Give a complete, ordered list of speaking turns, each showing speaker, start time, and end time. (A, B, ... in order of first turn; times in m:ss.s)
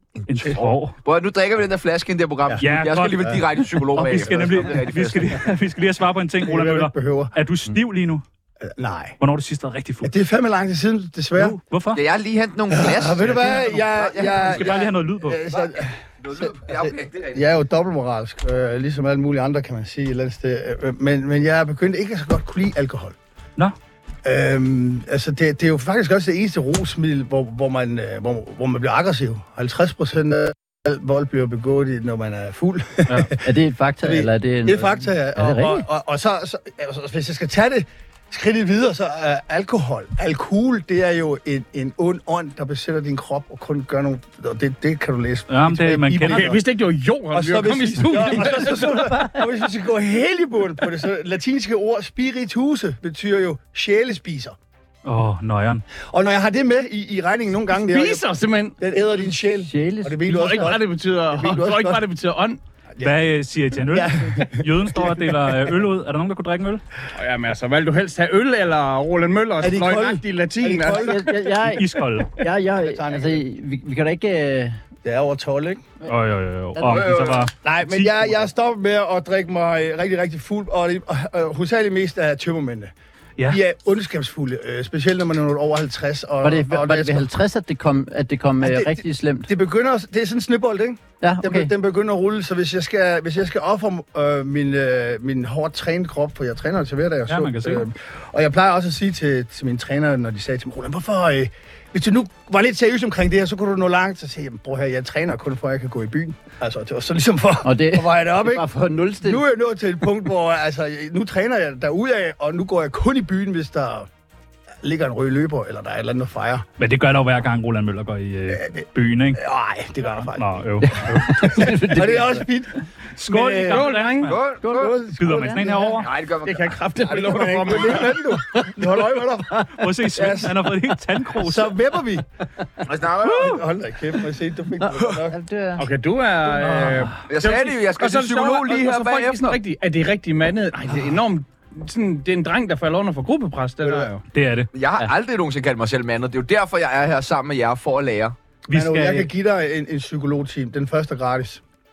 0:00.2-0:05.5 A
0:00.3-0:01.0 B
0:02.6-0:03.3 B
0:03.8-0:08.2 B
0:04.0-0:04.4 C
0:06.4-0:07.3 C
0:08.6-0:09.2 C
0:09.2-0:10.1 B
0:10.0-0:11.6 C
0:11.4-0:12.0 B
0:11.9-0:14.8 A
0:12.7-0:23.2 C
0:14.4-0:15.4 B
0:15.5-0:17.4 A
0:24.2-0:33.4 C
0:33.1-0:33.3 B
0:33.4-0:35.8 D
0:34.0-0:46.6 C
0:45.5-0:46.6 B
0:46.2-0:49.0 E
0:47.3-0:54.6 C
0:48.4-0:49.4 D
0:55.0-0:55.8 B
0:56.0-0:58.2 C
0:57.7-0:58.8 E
0:58.8-1:02.0 C
0:59.6-1:00.5 D
1:00.3-1:02.6 E
1:03.0-1:06.8 B
1:03.9-1:05.8 C
1:07.1-1:11.2 E
1:09.6-1:11.8 C
1:10.9-1:14.8 D
1:11.8-1:12.4 B
1:12.5-1:13.4 C
1:15.0-1:15.9 C
1:16.0-1:18.1 B
1:16.7-1:17.3 D
1:17.6-1:22.9 C
1:23.5-1:27.3 C
1:26.4-1:29.5 D
1:28.6-1:48.6 C
1:31.2-1:31.7 D
1:37.3-1:37.9 B
1:47.6-1:49.4 D
1:49.2-1:54.1 C
1:54.8-1:56.6 C
1:56.8-1:59.4 B
1:58.5-1:58.8 C
1:59.3-2:03.9 C
2:00.3-2:01.7 B
2:00.8-2:02.4 D
2:03.2-2:04.4 B
2:03.6-2:04.4 E
2:04.2-2:04.9 A
2:04.6-2:05.6 D
2:04.7-2:06.0 C
2:05.1-2:06.1 B
2:06.0-2:06.8 A
2:06.4-2:08.3 E
2:07.0-2:10.8 C
2:08.3-2:08.8 D
2:09.7-2:11.8 B
2:11.4-2:12.2 C
2:12.8-2:13.6 A
2:13.2-2:15.4 C
2:14.8-2:15.8 D
2:15.8-2:24.2 E
2:16.5-2:17.2 B
2:17.3-2:19.6 A
2:23.8-2:24.1 C
2:24.3-2:24.7 B
2:24.7-2:28.4 A
2:28.7-2:29.3 B
2:28.7-2:31.6 C